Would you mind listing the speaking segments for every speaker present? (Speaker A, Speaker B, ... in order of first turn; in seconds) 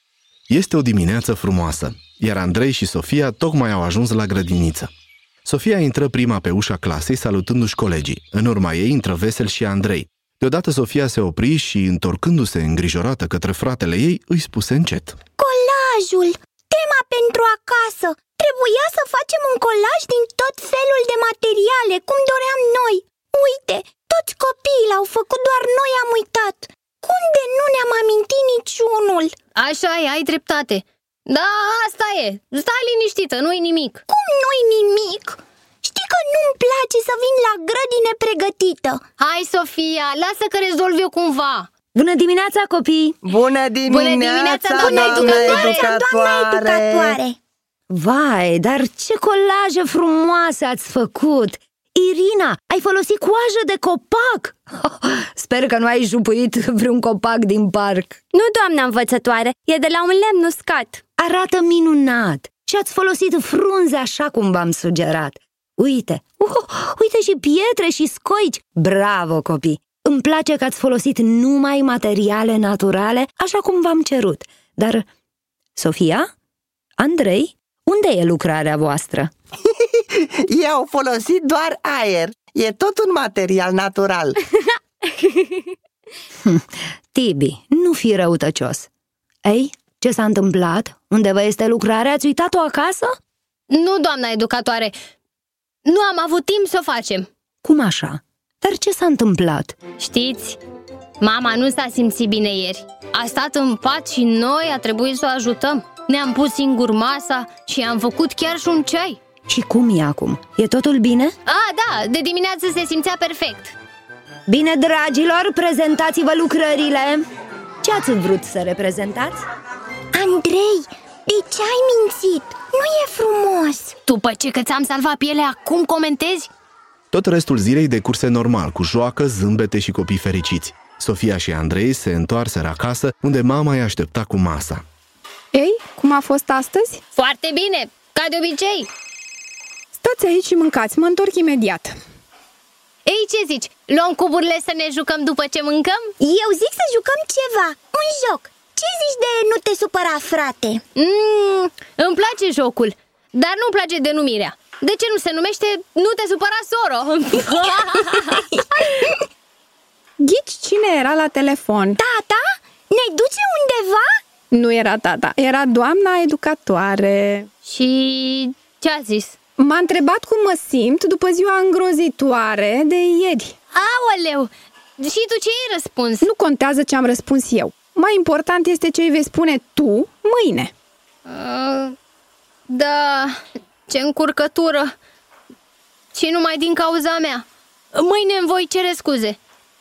Speaker A: 0.5-4.9, 5.4-15.2, 127.1-134.8
Speaker B: 15.4-29.3, 34.1-39.0, 44.8-47.4, 120.1-123.9, 146.2-150.8, 162.0-164.1
Speaker C: 29.6-34.0, 39.2-41.7, 43.9-45.9, 93.7-95.0, 95.8-97.3, 100.0-100.6, 101.2-109.2, 111.5-113.7, 124.0-126.5, 137.1-138.9, 143.1-146.1, 150.9-158.5, 167.7-169.3, 173.7-176.3, 181.2-181.9, 182.7-183.4, 183.9-184.9, 186.1-189.4
Speaker D: 41.9-43.2, 47.9-58.2, 61.2-75.0, 75.7-76.3, 77.0-79.3, 86.4-88.9, 89.4-93.2, 97.6-99.8, 109.5-111.3, 114.5-117.2, 117.8-119.5
Speaker E: 43.2-47.2, 80.1-84.4
Speaker F: 58.3-61.0
Speaker G: 135.5-137.0, 139.9-141.9, 160.2-162.0, 164.5-167.5, 169.6-173.5, 176.2-180.7